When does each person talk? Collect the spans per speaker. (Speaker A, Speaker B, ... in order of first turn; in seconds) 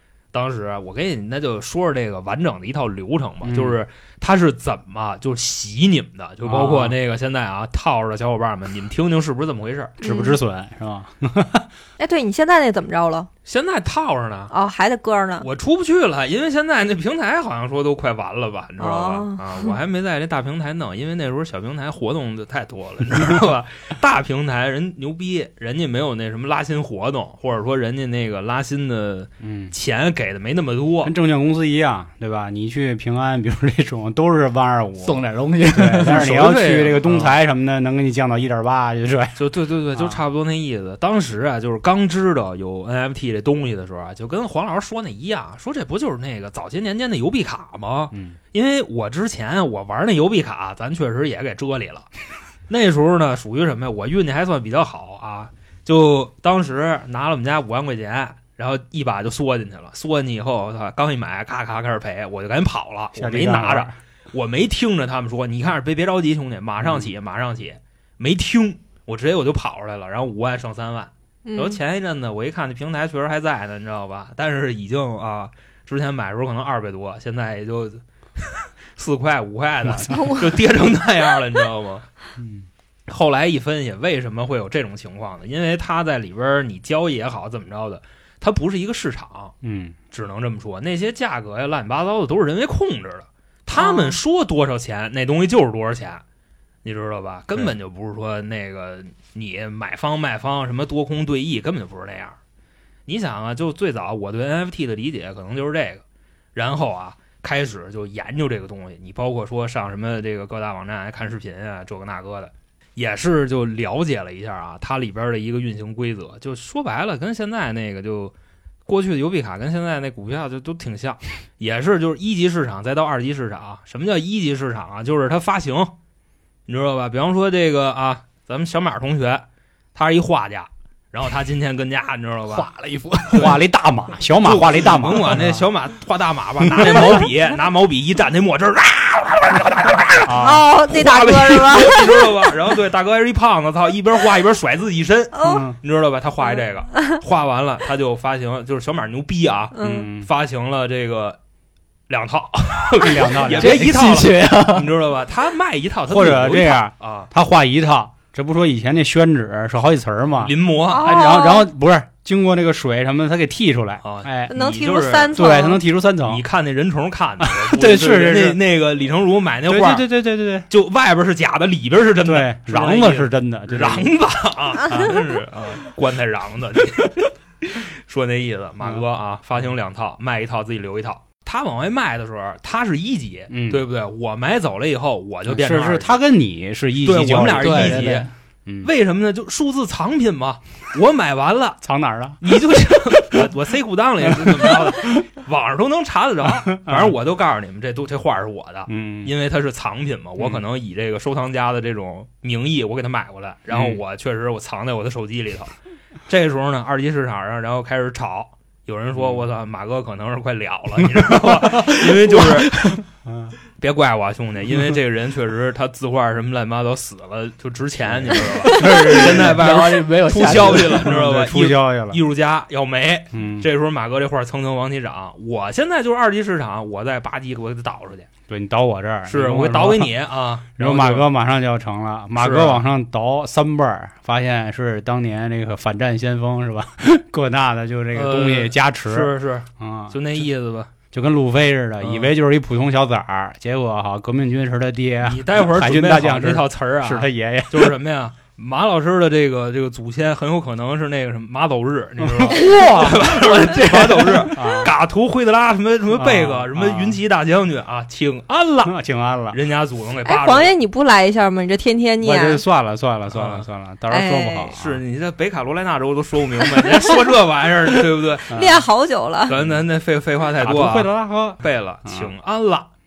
Speaker A: 0.3-10.0, 13.5-14.5, 15.4-31.1, 36.0-37.4, 39.4-52.1, 52.7-82.1, 83.1-89.5, 90.1-96.2, 96.8-102.4, 103.1-106.0, 106.5-118.3, 118.9-125.9, 126.7-132.7, 133.3-133.6, 134.4-151.4, 152.1-157.3, 160.4-161.1, 164.0-165.4, 166.3-170.1, 170.7-186.2, 187.0-188.3, 188.8-191.8, 192.4-205.7, 206.3-212.9, 213.8-228.3, 229.3-231.3, 232.4-232.8, 238.1-240.9, 242.0-242.3, 245.2-258.9, 259.5-260.7, 263.3-263.7, 264.8-268.5, 269.5-272.9
Speaker B: 3.4-3.8, 6.5-7.0, 10.0-11.7, 29.4-29.7, 31.0-39.4, 39.9-40.2, 48.1-48.4, 63.2-64.0, 66.8-67.1, 82.4-82.7, 89.6-90.0, 133.3-135.7, 136.6-137.2, 140.2-140.7, 145.4-145.8, 149.8-150.3, 153.0-154.1, 156.1-164.5, 165.3-166.4, 167.4-168.6, 169.7-170.7, 172.2-174.1, 174.9-175.2, 183.5-183.8, 185.5-188.9, 191.8-193.5, 194.3-195.2, 196.7-197.2, 198.9-199.3, 203.7-204.0, 209.2-209.4, 211.2-211.9, 213.2-213.6, 218.1-219.6, 220.5-222.2, 223.3-223.7, 228.5-230.1, 230.8-240.5, 241.1-247.9, 252.2-254.9, 256.1-257.2, 258.9-259.6, 262.2-265.0, 268.5-268.8, 270.6-272.3
Speaker C: 10.0-10.4, 12.0-13.3, 14.5-15.5, 18.8-19.7, 71.5-71.8, 80.1-80.5, 93.8-94.2, 140.4-142.5, 145.3-145.7, 149.7-150.1, 160.9-161.7, 164.5-165.8, 252.6-253.0, 260.3-262.6, 264.1-264.7, 268.5-269.6
Speaker D: 35.0-36.6, 132.5-133.5, 153.2-154.9, 187.6-188.3, 212.4-213.0, 218.7-221.2